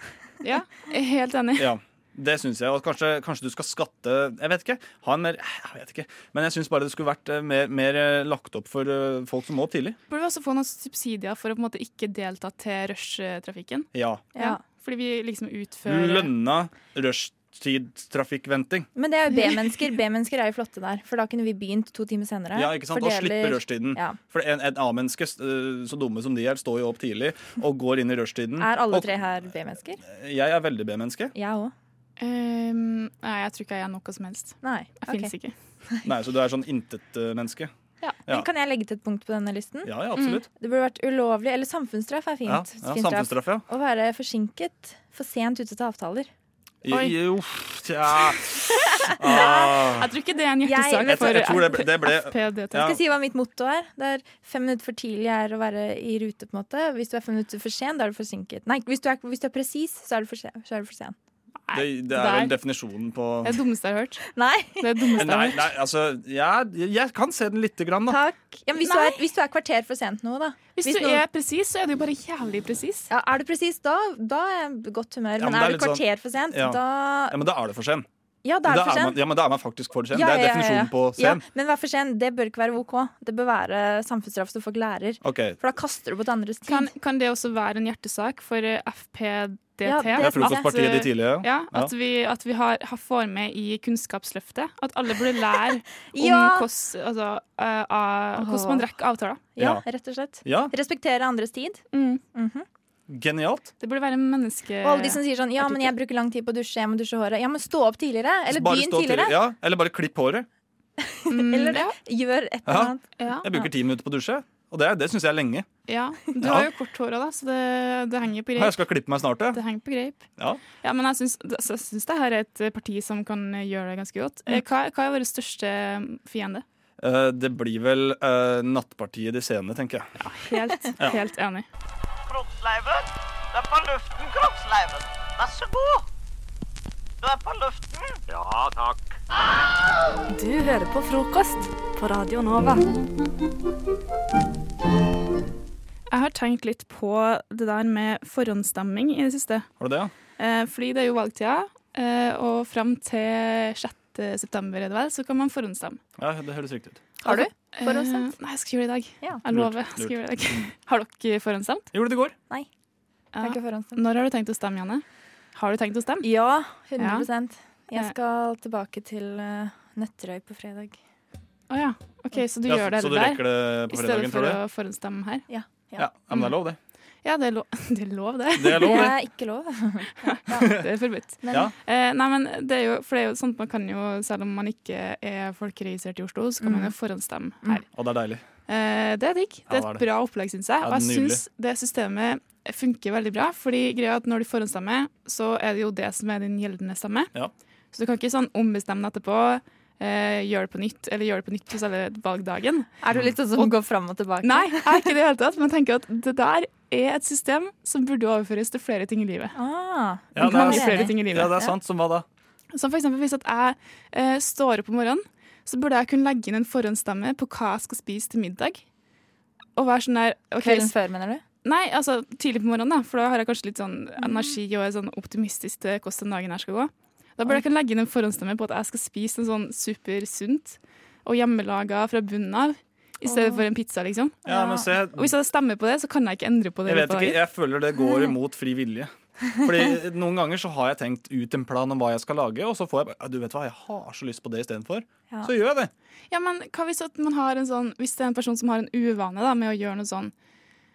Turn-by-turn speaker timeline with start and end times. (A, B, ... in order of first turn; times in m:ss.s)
0:00.4-0:01.7 A
0:01.6-0:10.0 B
0:10.1-0:16.3 A
0:13.9-0:14.2 B
0:14.4-0:14.6 C
0:15.9-0:18.9 B
0:19.0-0:24.2 C
0:22.6-0:29.1 B
0:28.6-0:30.0 C
0:30.1-0:31.3 B
0:31.4-0:31.7 C
0:32.2-0:35.6 A
0:34.6-0:35.3 C
0:36.1-0:37.7 B
0:38.3-0:40.0 C
0:39.9-0:40.4 B
0:40.2-0:40.4 A
0:40.6-0:46.3 C
0:42.5-0:43.6 B
0:46.9-0:48.4 B
0:46.9-0:47.2 A
0:49.2-0:52.9 A
0:49.2-0:50.1 B
0:49.2-0:49.8 C
0:50.6-0:51.4 C
0:51.1-0:52.3 B
0:52.8-1:01.2 C
1:01.7-1:02.5 A
1:01.8-1:03.5 B
1:03.4-1:04.2 A
1:04.3-1:05.3 C
1:04.8-1:05.7 A
1:05.2-1:08.2 B
1:08.1-1:11.2 C
1:08.8-1:09.2 A
1:10.8-1:13.1 A
1:13.1-1:17.4 C
1:15.4-1:16.0 B
1:16.5-1:16.8 B
1:17.3-1:18.0 B
1:18.4-1:19.2 C
1:18.7-1:21.4 B
1:20.1-1:26.9 C
1:25.2-1:25.6 B
1:26.6-1:39.5 A
1:29.8-1:30.7 C
1:30.2-1:31.9 B
1:36.1-1:36.7 C
1:38.4-1:38.9 C
1:39.6-1:41.8 C
1:40.4-1:40.7 B
1:41.9-1:42.2 A
1:42.4-1:42.6 C
1:43.1-1:43.7 B
1:43.8-1:45.9 A
1:44.8-1:49.4 C
1:48.6-1:50.4 B
1:51.0-1:53.1 C
1:51.3-1:52.0 A
1:53.2-1:53.6 A
1:53.4-1:55.7 B
1:55.9-1:58.8 A
1:58.6-1:59.6 B
1:59.5-2:06.6 A
2:07.0-2:10.0 B
2:10.2-2:11.7 A
2:12.3-2:16.0 D
2:17.2-2:19.1 D
2:20.3-2:22.8 E
2:26.1-2:29.7 A
2:29.8-2:30.1 B
2:30.4-2:36.0 A
2:36.2-2:37.0 B
2:37.2-2:41.9 A
2:37.2-2:38.3 C
2:39.5-2:40.1 B
2:42.0-2:42.3 B
2:43.4-2:46.3 A
2:43.4-2:44.0 C
2:46.2-2:51.0 C
2:47.0-2:47.3 A
2:51.7-2:55.5 A
2:52.7-2:54.6 B
2:55.5-2:56.3 C
2:56.0-2:56.8 B
2:57.2-2:59.1 A
2:58.8-3:00.8 C
3:00.2-3:07.8 A
3:01.4-3:01.7 C
3:06.6-3:07.0 C
3:08.0-3:08.4 B
3:08.7-3:17.3 A
3:09.7-3:10.0 B
3:10.8-3:11.4 B
3:17.9-3:22.9 A
3:23.0-3:25.0 C
3:24.4-3:29.6 A
3:29.6-3:31.7 C
3:30.4-3:31.5 A
3:30.4-3:32.2 B
3:32.7-3:38.8 A
3:39.8-3:41.0 A
3:40.6-3:41.4 C
3:41.6-3:57.4 A
3:44.2-3:44.6 C
3:53.3-3:53.6 C
3:54.5-3:54.9 C
3:54.5-3:55.3 B
3:56.9-3:59.1 B
3:59.7-4:05.9 B
4:06.3-4:10.3 A